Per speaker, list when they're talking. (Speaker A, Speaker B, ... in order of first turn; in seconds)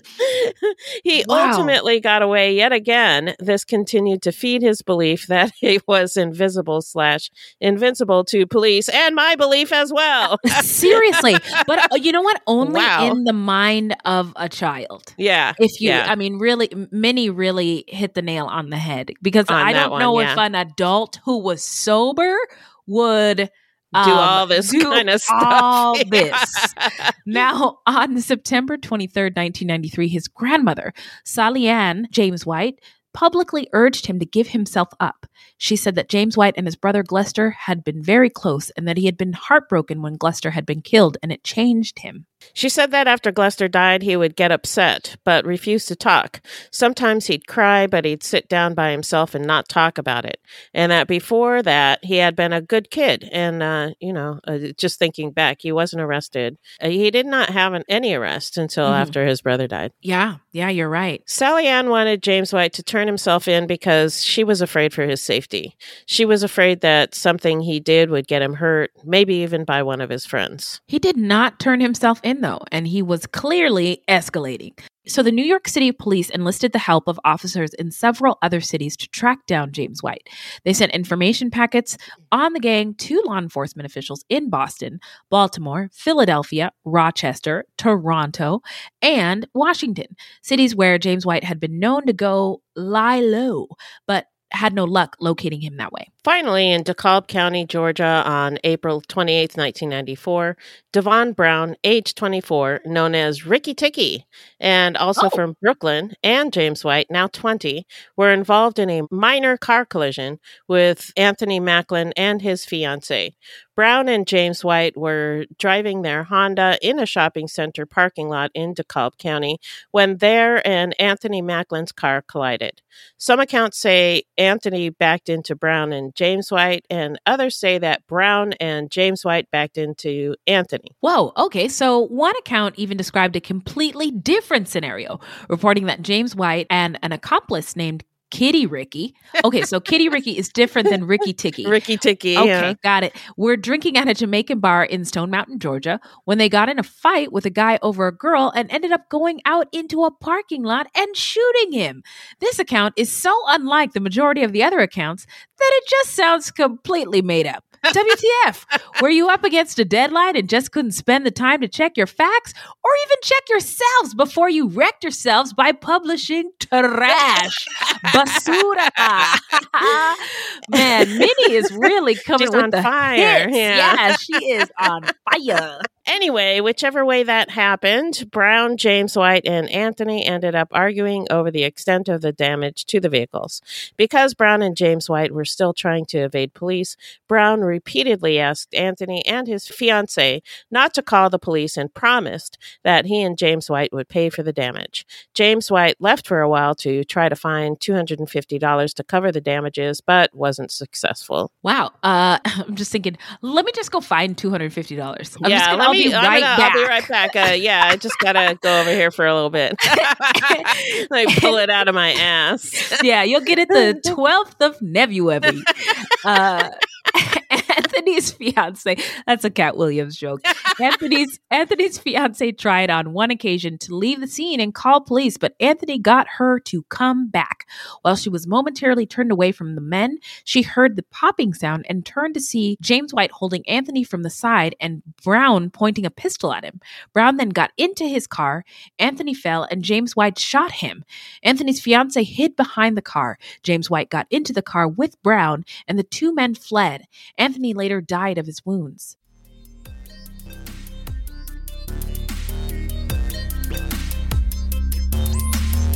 Speaker A: 0.2-11.2, 12.6-13.2, 15.2-16.1, 19.5-20.4, 24.0-27.1, 42.5-59.9, 61.3-70.8, 96.2-130.9, 141.6-142.8, 170.7-174.2, 176.0-201.5, 205.4-213.0, 213.8-214.1
Speaker B: 1.2-1.8, 10.4-26.7, 27.2-42.2, 58.8-59.1, 60.0-61.2, 70.9-96.1, 131.0-141.8, 142.3-175.8, 201.6-207.1, 209.9-211.6, 212.8-249.2